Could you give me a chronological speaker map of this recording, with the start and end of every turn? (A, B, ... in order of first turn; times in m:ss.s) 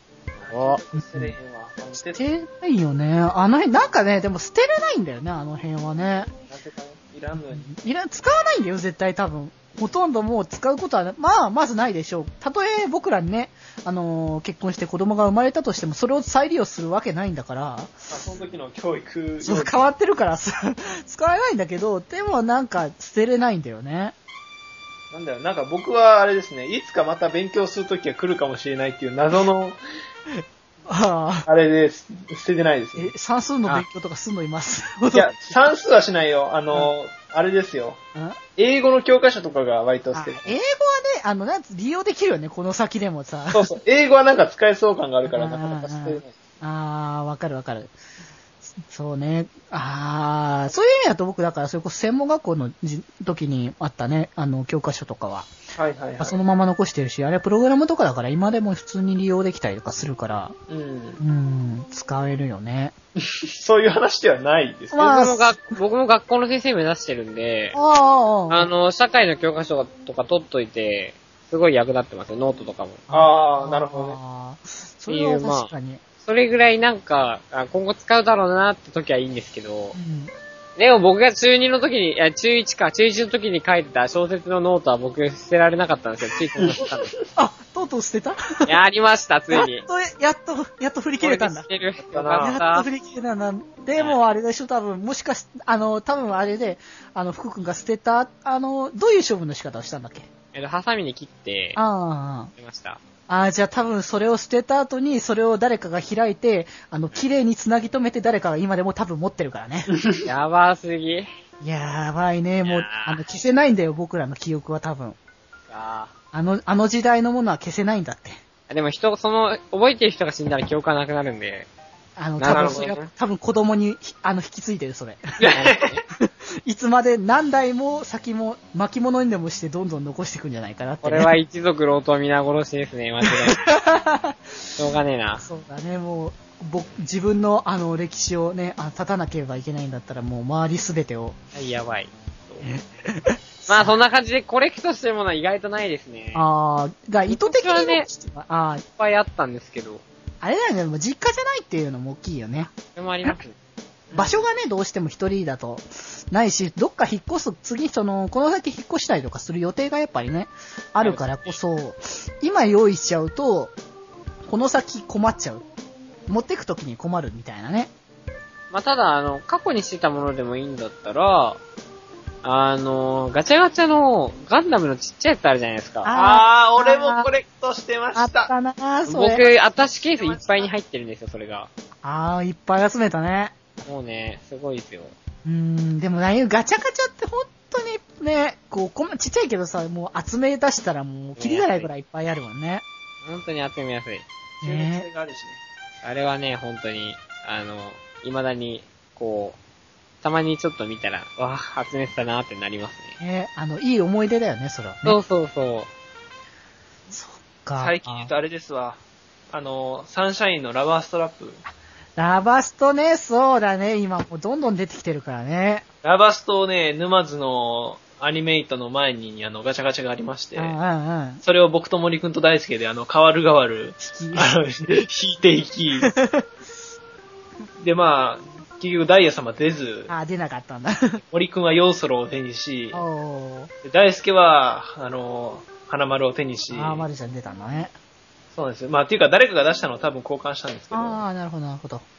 0:00.4-0:02.2 A
0:00.5-0:00.8 B
0:00.9-0:01.3 C
0:02.1-0:06.3 C
0:06.5-0:07.7 A
0:07.4-0:17.9 C
0:18.1-0:19.8 A
0:19.4-0:24.1 C
0:25.1-0:29.8 A
0:30.9-0:31.5 C
0:31.4-0:33.1 A
0:33.0-0:35.3 C
0:35.1-0:38.0 A
0:38.6-0:40.6 A
0:40.1-0:43.7 C
0:43.5-0:46.3 A
0:45.2-0:47.9 C
0:48.8-0:55.5 C
0:55.8-0:56.4 A
0:56.2-1:00.6 C
1:00.7-1:01.2 A
1:01.2-1:02.9 C
1:03.2-1:05.1 A
1:04.9-1:05.6 C
1:05.0-1:07.8 B
1:07.7-1:08.7 C
1:08.5-1:13.0 B
1:13.1-1:16.0 C
1:13.1-1:14.2 A
1:15.1-1:15.7 B
1:16.2-1:20.0 B
1:19.9-1:20.3 C
1:20.8-1:27.1 B
1:26.6-1:27.2 A
1:27.4-1:28.7 C
1:28.6-1:29.8 B
1:29.5-1:31.7 C
1:31.2-1:32.8 B
1:32.1-1:32.6 A
1:32.4-1:40.3 C
1:40.5-1:41.8 B
1:41.8-1:42.5 C
1:42.6-1:43.0 B
1:43.3-1:49.9 C
1:49.9-1:50.2 A
1:50.2-1:51.3 B
1:51.6-1:55.2 C
1:52.6-1:53.2 B
1:55.7-1:56.1 B
1:56.3-1:58.4 C
1:58.7-2:01.7 B
2:02.2-2:05.2 C
2:02.4-2:03.1 B
2:02.5-2:02.9 A
2:05.4-2:05.9 A
2:05.5-2:06.0 B
2:06.2-2:11.3 C
2:11.0-2:13.6 B
2:13.2-2:14.4 C
2:14.8-2:15.4 B
2:15.4-2:21.4 C
2:21.5-2:22.7 B
2:22.6-2:23.9 C
2:23.7-2:26.4 B
2:26.3-2:28.8 C
2:27.2-2:28.1 B
2:29.0-2:30.0 B
2:30.4-2:32.7 C
2:32.9-2:33.5 B
2:34.1-2:34.4 A
2:34.1-2:43.7 C
2:41.0-2:41.5 B
2:44.4-2:45.6 C
2:46.3-2:47.9 C
2:48.7-2:51.6 B
2:52.4-2:56.1 B
2:56.0-2:57.3 C
2:56.1-2:58.5 A
2:58.1-2:59.5 C
2:59.1-3:01.7 B
3:00.1-3:00.7 A
3:02.0-3:03.5 C
3:03.8-3:05.1 B
3:05.4-3:12.8 C
3:11.4-3:11.9 B
3:13.2-3:14.2 B
3:14.6-3:15.0 C
3:14.6-3:15.6 A
3:16.0-3:19.6 B
3:20.2-3:23.2 B
3:23.2-3:25.2 C
3:25.0-3:25.9 B
3:27.1-3:28.3 C
3:27.8-3:29.0 A
3:29.5-3:31.6 A
3:32.2-3:35.8 C
3:36.0-3:40.8 A
3:40.6-3:41.4 C
3:41.4-3:46.1 A
3:44.0-3:44.5 C
3:46.0-3:46.4 C
3:47.8-3:50.1 A
3:50.1-3:51.2 C
3:51.3-3:53.0 A
3:52.9-3:53.7 C
3:53.8-3:57.1 A
3:56.7-3:57.9 C
3:58.5-4:01.2 A
4:00.9-4:02.0 C